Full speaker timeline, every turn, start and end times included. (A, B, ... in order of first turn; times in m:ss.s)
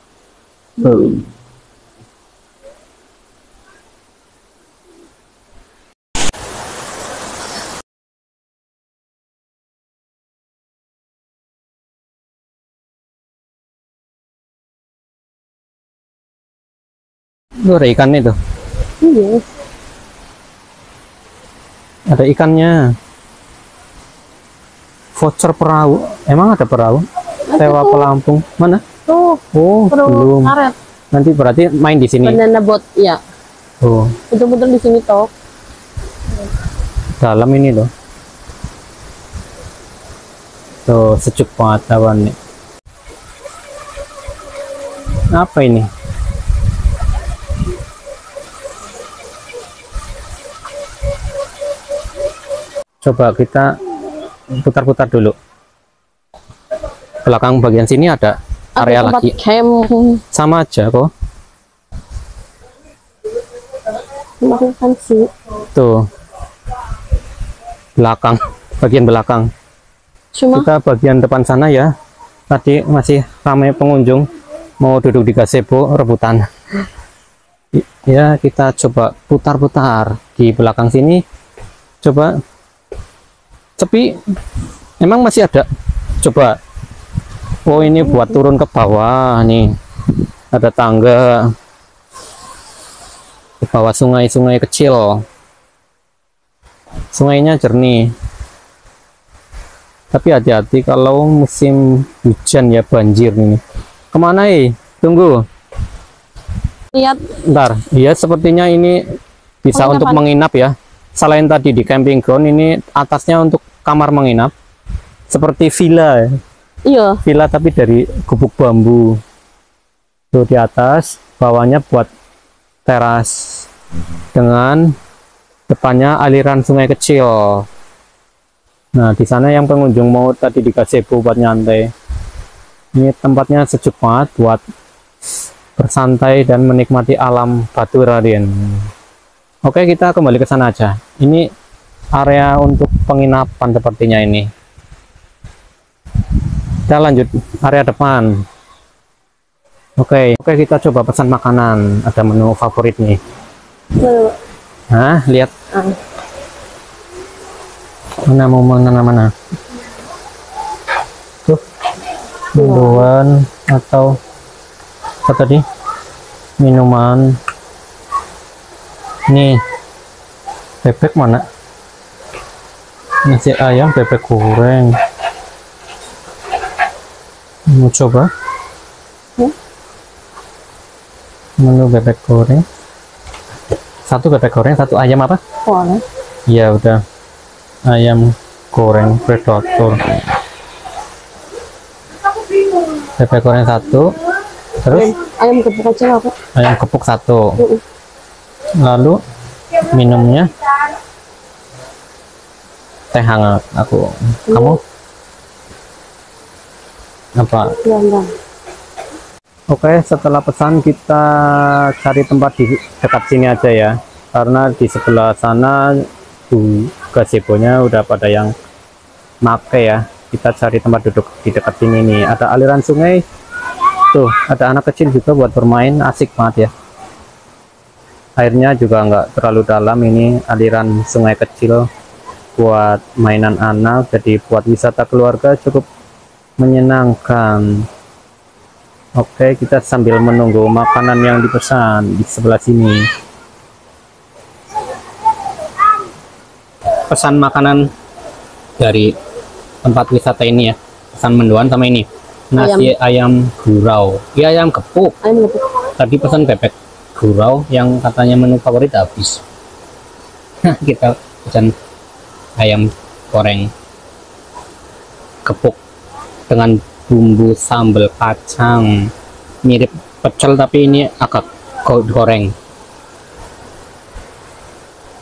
0:00.8-0:01.2 A
0:17.6-0:18.3 A
0:19.0-0:19.4 B
0:22.1-0:22.7 A
0:25.1-0:27.0 A
0:27.5-0:28.1 B
0:27.6-0:28.8 A
0:29.1-0:30.7 B
0:29.5-0:30.5 A
0:31.1-0:32.4 A
0:32.2-0:33.2 B
0:33.8-0:34.2 A
0:34.3-0:35.3 B
0:37.2-0:37.9 A
0:40.8-0:42.3 A
0:45.3-0:45.9 A
0:53.0-0:53.7 A
0:54.6-0:55.3 A
0:57.2-0:59.3 A
0:58.8-1:00.2 B
1:00.3-1:01.1 A
1:04.4-1:05.3 B
1:08.0-1:09.5 A
1:10.3-1:10.7 B
1:10.5-1:11.9 A
1:12.5-1:14.2 A
1:14.8-1:16.4 A
1:17.8-1:21.2 A
1:22.0-1:22.3 A
1:23.8-1:24.1 A
1:25.0-1:25.6 A
1:26.2-1:26.6 A
1:27.6-1:29.7 A
1:27.8-1:28.4 B
1:30.5-1:31.5 A
1:33.6-1:35.2 A
1:37.1-1:38.0 A
1:40.1-1:43.6 A
1:44.1-1:45.4 A
1:46.9-1:47.2 B
1:47.5-1:49.0 A
1:49.6-1:54.5 A
1:49.7-1:50.2 B
1:55.3-1:56.3 A
1:56.8-1:57.2 B
1:57.2-1:59.2 A
2:00.3-2:02.1 A
2:02.8-2:03.6 A
2:04.3-2:04.9 A
2:05.7-2:07.6 A
2:09.0-2:11.9 A
2:12.9-2:14.6 A
2:15.8-2:18.9 A
2:19.6-2:21.4 A
2:22.1-2:24.4 A
2:26.9-2:28.3 A
2:30.0-2:33.2 A
2:34.0-2:34.3 B
2:34.9-2:35.5 A
2:38.3-2:39.3 A
2:42.5-2:44.1 A
2:42.6-2:43.1 B
2:45.2-2:45.6 A
2:46.6-2:47.3 A
2:49.3-2:49.6 A
2:50.8-2:51.4 A
2:53.2-2:54.9 A
2:57.7-2:58.3 A
3:01.6-3:02.6 A
3:04.0-3:05.4 A
3:05.6-3:06.0 B
3:06.5-3:07.0 A
3:07.8-3:10.0 A
3:13.2-3:14.1 A
3:14.8-3:15.1 A
3:14.9-3:16.3 B
3:16.5-3:17.5 A
3:18.8-3:19.2 A
3:19.8-3:20.5 A
3:23.1-3:24.8 A
3:24.5-3:24.8 B
3:27.4-3:27.7 A
3:27.8-3:28.3 B
3:29.7-3:38.5 A
3:39.4-3:43.2 A
3:44.1-3:46.7 A
3:48.4-3:51.8 A
3:52.6-3:55.8 A
3:56.6-3:57.8 A
3:59.2-4:03.1 A
4:07.1-4:07.8 A
4:08.8-4:09.1 A
4:09.8-4:15.2 A
4:12.6-4:12.9 B
4:15.2-4:15.7 B
4:16.0-4:19.4 A
4:20.6-4:21.7 A
4:22.6-4:23.7 A
4:25.4-4:25.8 A
4:26.5-4:29.1 A
4:29.6-4:32.5 A